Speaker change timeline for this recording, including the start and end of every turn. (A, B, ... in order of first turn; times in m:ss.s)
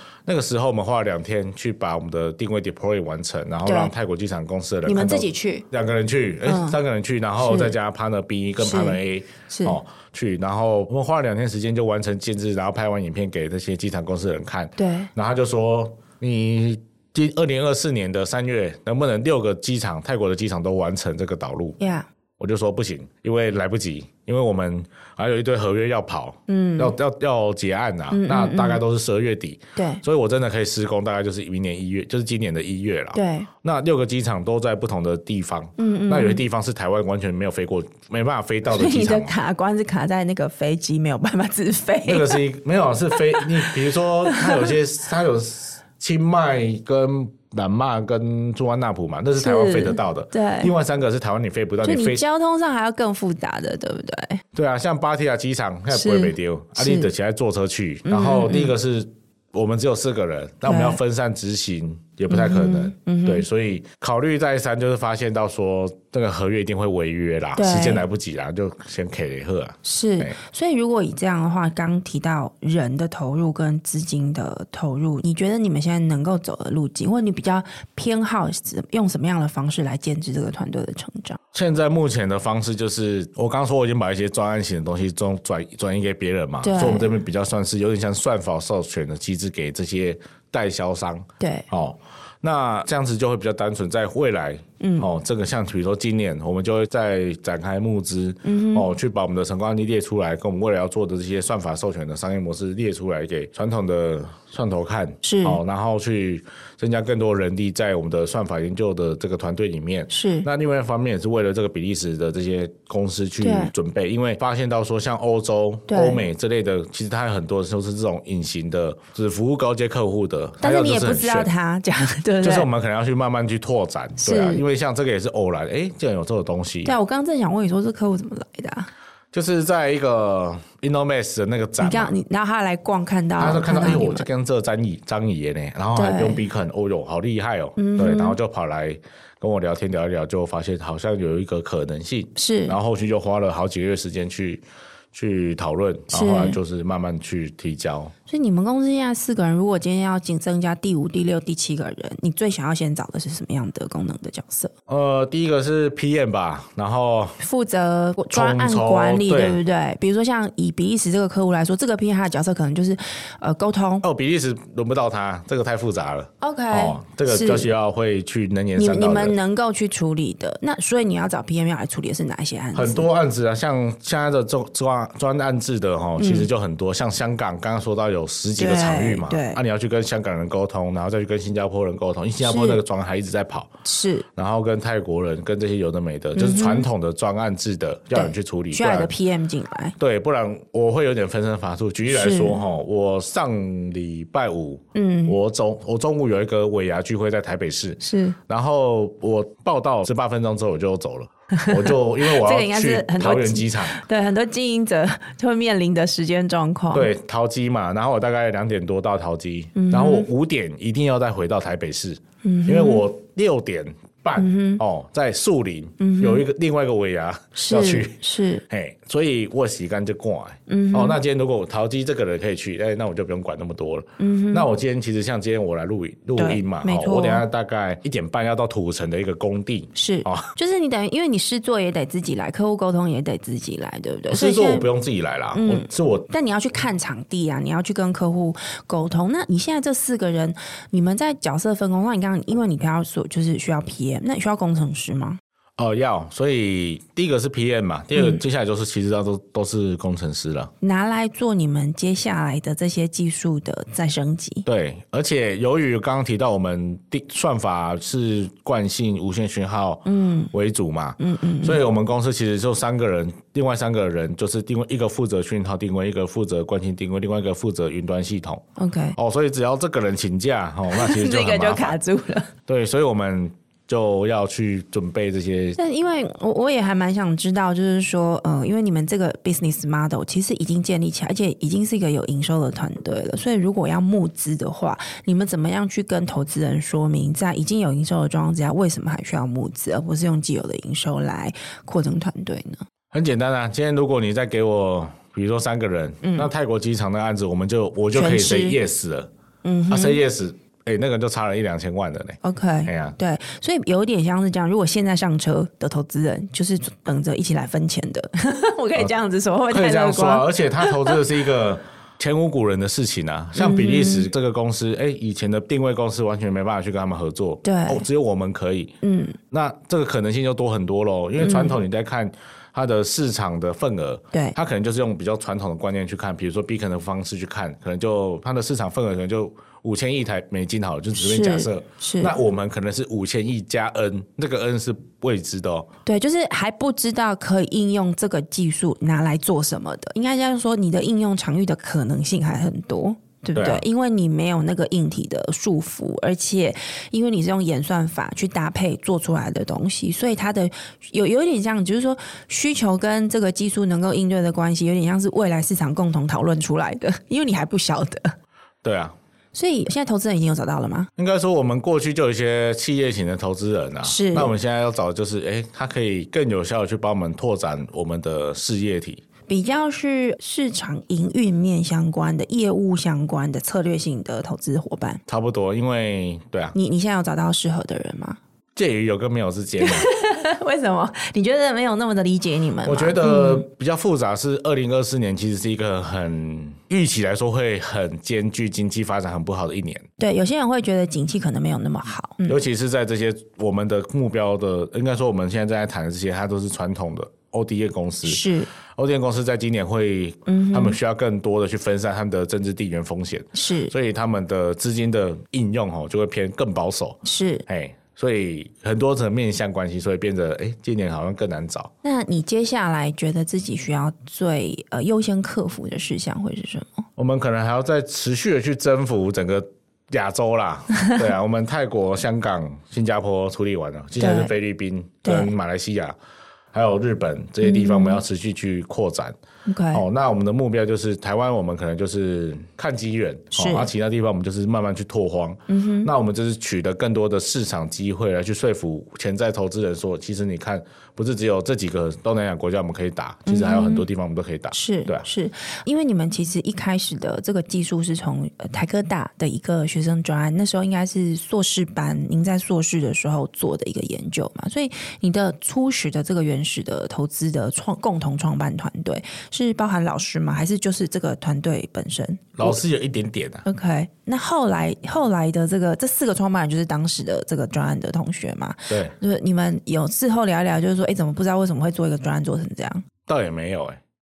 0:00.2-0:21.8 A
0:03.6-0:03.9 B
0:04.8-0:05.6 B
0:06.4-0:06.8 B
0:07.4-0:07.7 B
0:08.6-0:09.8 B
0:14.8-0:15.1 B
0:21.8-0:22.1 B
0:22.4-0:39.3 A
0:26.5-0:26.9 B
0:28.1-0:28.8 B
0:29.8-0:30.0 B
0:33.1-0:33.5 B
0:35.8-0:36.4 B
0:38.7-0:42.4 B
0:42.0-0:52.2 A
0:43.1-0:44.7 B
0:49.4-0:50.7 B
0:51.8-0:54.4 B
0:54.5-1:10.4 A
0:55.9-0:57.1 B
0:58.0-0:58.7 B
1:00.6-1:01.0 B
1:02.3-1:03.4 B
1:07.6-1:08.0 B
1:09.8-1:21.4 B
1:21.5-2:01.5 A
1:26.6-1:27.1 B
1:31.4-1:31.7 B
1:34.8-1:35.1 B
1:38.4-1:38.9 B
1:45.2-1:45.6 B
1:50.1-1:50.5 B
1:53.4-1:53.7 B
1:55.9-1:56.2 B
2:00.6-2:02.7 B
2:02.4-2:06.9 A
2:04.2-2:04.6 B
2:06.8-2:08.9 B
2:09.3-2:12.1 A
2:11.8-2:14.2 B
2:13.4-2:28.1 A
2:15.9-2:16.4 B
2:17.8-2:18.4 B
2:22.4-2:22.8 B
2:26.1-2:26.6 B
2:28.3-2:34.7 B
2:34.9-2:37.4 A
2:37.4-2:44.0 B
2:38.3-2:39.6 A
2:44.0-2:49.4 A
2:46.4-2:47.7 B
2:48.8-2:53.1 B
2:52.7-3:03.7 A
2:56.2-2:56.5 B
2:58.6-2:59.6 B
3:02.4-3:02.8 B
3:03.8-3:04.2 B
3:04.3-3:09.1 A
3:06.3-3:06.9 B
3:08.1-3:09.9 B
3:10.0-3:24.0 A
3:12.1-3:12.6 B
3:14.9-3:15.4 B
3:18.0-3:18.4 B
3:21.5-3:27.1 B
3:26.9-3:50.5 A
3:29.7-3:30.3 B
3:32.4-3:33.0 B
3:34.4-3:34.8 B
3:36.0-3:36.4 B
3:37.5-3:38.6 B
3:40.7-3:41.2 B
3:44.2-3:44.7 B
3:46.4-3:47.4 B
3:49.9-3:54.9 B
3:54.3-3:56.3 A
3:55.5-4:05.4 B
4:05.8-4:10.7 A
4:08.2-4:08.4 B
4:10.8-4:14.6 B
4:14.6-4:28.6 A
4:20.0-4:20.5 B
4:21.2-4:21.8 B
4:28.8-4:29.2 B
4:29.1-4:32.0 A
4:30.9-4:32.5 B
4:32.7-4:35.8 A
4:35.8-4:52.8 B
4:53.1-4:59.3 A
4:56.2-4:56.5 B
4:58.1-4:58.8 B
4:59.6-5:00.2 B
4:59.9-5:03.2 A
5:02.4-5:11.2 B
5:09.7-5:19.0 A
5:13.6-5:14.3 B
5:17.6-5:18.0 B
5:19.0-5:19.4 B
5:19.5-5:35.9 A
5:21.4-5:21.8 B
5:31.2-5:32.3 B
5:36.0-5:58.3 B
5:43.5-5:43.8 A
5:58.8-5:59.1 A
5:59.5-6:01.1 B
6:01.2-6:09.2 A
6:04.0-6:04.5 B
6:09.5-6:15.2 B
6:15.3-6:16.7 A
6:16.7-6:18.4 B
6:18.8-6:20.1 A
6:19.8-6:23.6 B
6:22.8-6:30.0 A
6:30.2-6:32.6 B
6:32.4-6:38.4 A
6:38.2-6:38.7 B
6:39.0-6:51.9 A
6:40.5-6:41.0 B
6:43.5-6:43.9 B
6:47.2-6:47.6 B
6:52.0-6:57.0 B
6:57.2-7:06.1 A
7:04.2-7:04.5 B
7:05.2-7:05.5 B
7:06.7-7:09.4 A
7:07.6-7:08.2 B
7:09.7-7:10.0 B
7:09.9-7:25.2 A
7:13.5-7:13.9 B
7:15.7-7:16.1 B
7:23.4-7:24.1 B
7:24.7-7:42.8 B
7:42.6-7:43.6 A
7:43.6-7:53.0 B
7:48.9-7:49.1 A
7:53.3-7:54.0 A